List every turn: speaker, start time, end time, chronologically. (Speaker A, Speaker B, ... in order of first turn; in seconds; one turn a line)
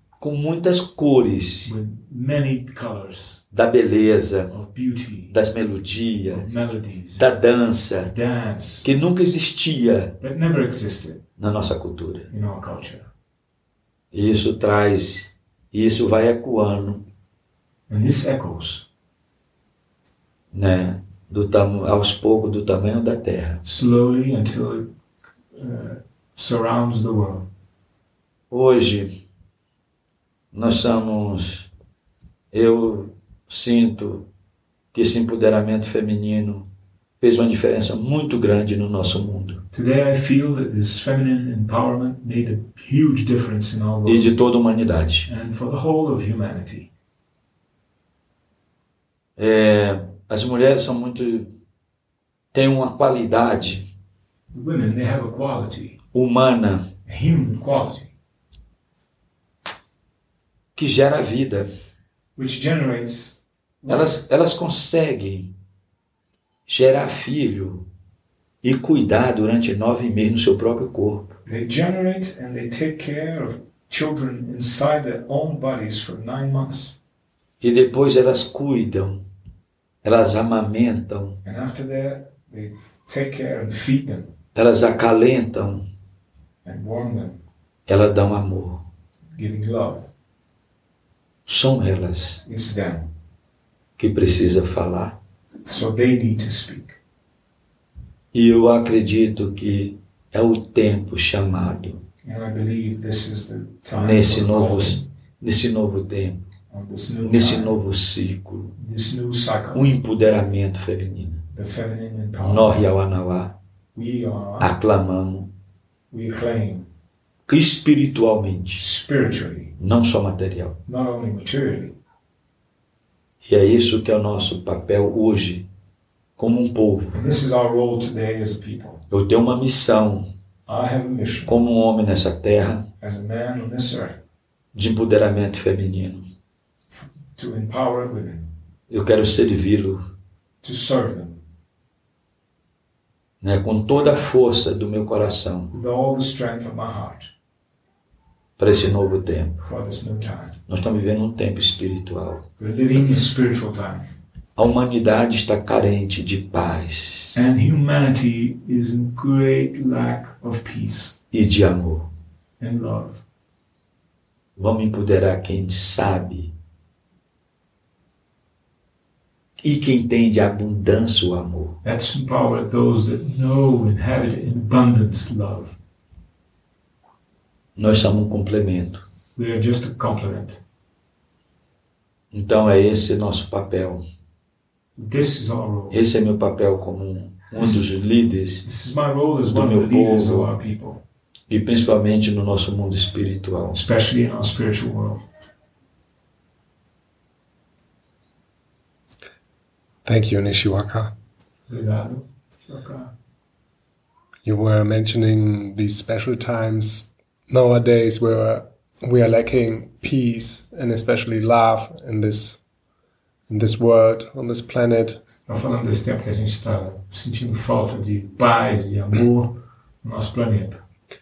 Speaker A: 0.2-1.7
Speaker B: 1.6-3.4
Speaker A: 3.5-4.5
Speaker B: 4.5-5.3
Speaker A: 5.3-6.5
Speaker B: 6.3-7.3
Speaker A: 7.2-8.1
Speaker B: 8.0-8.9
Speaker A: 8.8-10.2
Speaker B: 10.2-11.2
Speaker A: 11.4-12.3
Speaker B: 12.3-13.1
Speaker A: 14.1-17.1
Speaker B: 17.9-18.9
Speaker A: 20.5-23.6
Speaker B: 23.6-24.9
Speaker B: 25.5-27.5
Speaker A: 28.5-29.1
Speaker A: 30.5-31.7
Speaker A: 32.5-34.3
Speaker A: 34.9-36.7
Speaker A: 37.2-39.6
Speaker B: 39.7-44.3
Speaker A: 44.1-45.3
Speaker B: 45.3-46.9
Speaker A: 49.4-51.5
Speaker A: 52.5-53.9
Speaker B: 54.5-56.0
Speaker A: 56.1-56.9
Speaker B: 57.1-58.1
Speaker A: 60.8-61.7
Speaker B: 62.4-64.2
Speaker A: 63.9-65.5
Speaker A: 66.7-67.9
Speaker A: 68.6-71.4
Speaker B: 71.5-77.0
Speaker A: 77.6-79.2
Speaker A: 80.0-81.4
Speaker B: 81.4-84.3
Speaker A: 84.5-85.9
Speaker B: 86.6-87.4
Speaker A: 87.9-88.8
Speaker B: 89.3-90.1
Speaker A: 91.5-92.4
Speaker B: 92.5-93.1
Speaker A: 94.0-95.2
Speaker B: 95.7-97.0
Speaker A: 98.3-102.0
Speaker B: 102.2-105.1
Speaker A: 103.9-106.5
Speaker B: 106.7-107.8
Speaker A: 107.2-108.7
Speaker B: 108.8-109.9
Speaker A: 109.8-111.4
Speaker B: 111.5-112.9
Speaker A: 112.4-113.6
Speaker B: 114.0-114.8
Speaker A: 114.6-115.5
Speaker B: 116.1-116.9
Speaker A: 117.5-118.8
Speaker B: 118.8-119.7
Speaker A: 119.8-120.8
Speaker B: 120.9-122.0
Speaker A: 123.4-125.7
Speaker A: 126.4-127.2
Speaker B: 127.1-129.0
Speaker A: 129.1-130.3
Speaker B: 130.7-131.6
Speaker A: 131.5-132.9
Speaker B: 133.0-134.2
Speaker A: 134.7-136.3
Speaker B: 136.9-138.5
Speaker A: 138.9-140.0
Speaker B: 140.6-141.4
Speaker A: 143.4-145.7
Speaker B: 145.7-147.3
Speaker A: 148.6-149.6
Speaker B: 149.6-150.6
Speaker A: 150.7-152.4
Speaker B: 152.6-154.0
Speaker A: 154.6-157.4
Speaker B: 157.3-161.2
Speaker A: 161.3-162.1
Speaker B: 162.6-163.2
Speaker A: 164.6-166.5
Speaker A: 169.6-171.8
Speaker B: 171.8-175.8
Speaker A: 177.8-179.0
Speaker B: 179.4-180.6
Speaker A: 182.3-184.0
Speaker B: 185.0-186.0
Speaker A: 185.9-188.6
Speaker B: 187.6-187.8
Speaker B: 188.6-191.0
Speaker A: 189.5-190.5
Speaker A: 191.5-193.8
Speaker B: 193.7-195.2
Speaker C: 200.1-201.1
Speaker B: 201.7-203.1
Speaker C: 204.4-212.6
Speaker C: 213.5-215.2
Speaker B: 215.5-220.8